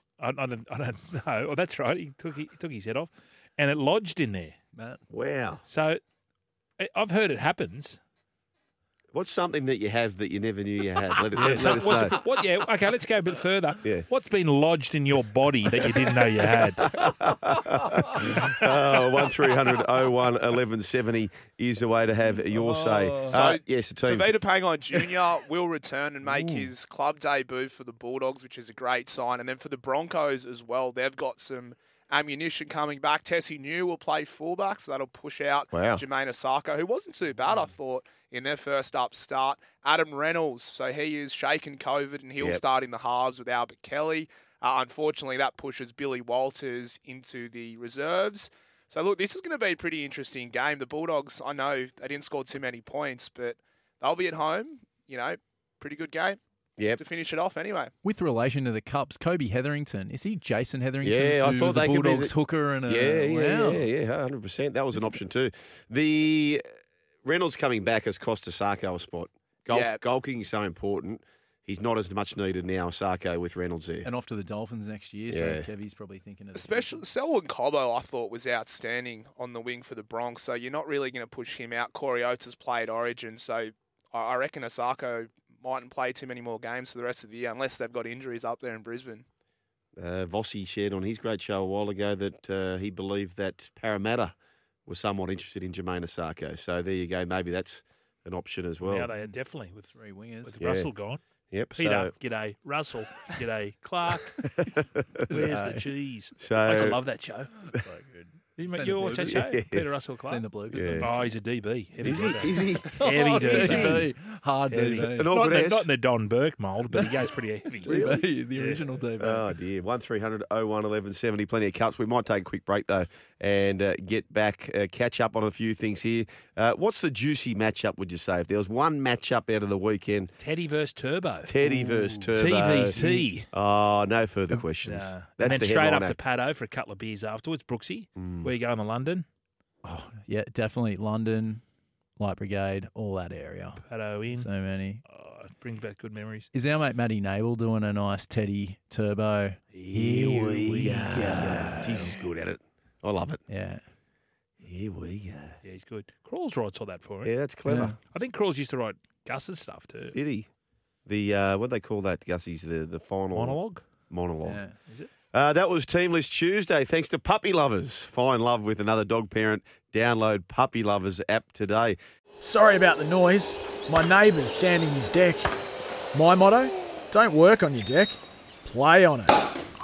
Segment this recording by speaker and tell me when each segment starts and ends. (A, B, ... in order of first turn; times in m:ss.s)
0:00.2-0:04.6 A
0:04.7-0:05.0 B
0:05.1-0:05.6 C
0:05.6-0:06.0 A
0:06.8-0:08.0 A
0:09.1-0:12.2 C
0:11.4-0:16.9 A
0:16.9-0:24.4 C
0:18.2-0:18.5 A
0:22.5-0:23.4 B
0:23.3-0:56.4 D
0:26.3-0:26.7 C
0:35.7-0:36.0 C
0:57.0-0:57.9 D
0:58.0-1:03.9 B
1:01.0-1:02.4 C
1:02.9-1:06.6 C
1:04.9-1:05.2 B
1:07.2-1:14.1 C
1:09.7-1:10.0 D
1:14.0-1:17.0 B
1:15.3-1:15.7 C
1:16.6-1:29.2 D
1:30.0-1:34.3 C
1:34.9-1:39.1 C
1:38.8-1:41.2 A
1:39.1-1:40.6 B
1:40.6-1:40.9 C
1:41.5-1:42.1 C
1:41.8-1:44.4 A
1:44.6-1:45.2 C
1:45.3-1:45.9 B
1:45.3-1:47.6 A
1:46.4-1:47.0 C
1:47.7-1:49.5 B
1:48.6-1:50.4 A
1:49.3-1:50.0 C
1:50.2-1:51.3 B
1:50.7-1:51.1 C
1:51.0-1:54.1 A
1:52.0-1:54.1 C
1:52.2-1:55.4 B
1:54.7-1:57.9 A
1:55.1-1:55.9 C
1:57.8-1:59.5 B
1:57.8-1:58.3 C
1:58.6-1:58.8 A
1:59.2-2:10.3 C
2:10.4-2:11.5 A
2:11.4-2:13.0 C
2:11.6-2:12.4 B
2:12.4-2:13.5 A
2:13.0-2:13.3 B
2:13.5-2:16.2 C
2:14.8-2:19.2 A
2:18.2-2:18.5 C
2:19.8-2:21.6 B
2:22.2-2:25.0 B
2:23.8-2:24.5 A
2:25.0-2:26.5 A
2:26.5-2:32.1 B
2:29.7-2:31.8 A
2:30.3-2:33.4 C
2:33.5-2:33.8 B
2:34.6-2:35.6 C
2:35.6-2:37.3 A
2:37.2-2:38.0 C
2:37.7-2:38.0 B
2:38.1-2:40.2 A
2:40.1-2:40.5 C
2:41.1-2:44.7 C
2:43.3-2:43.8 A
2:44.4-2:44.7 B
2:45.3-2:52.0 C
2:52.4-2:55.5 E
2:56.1-2:59.3 E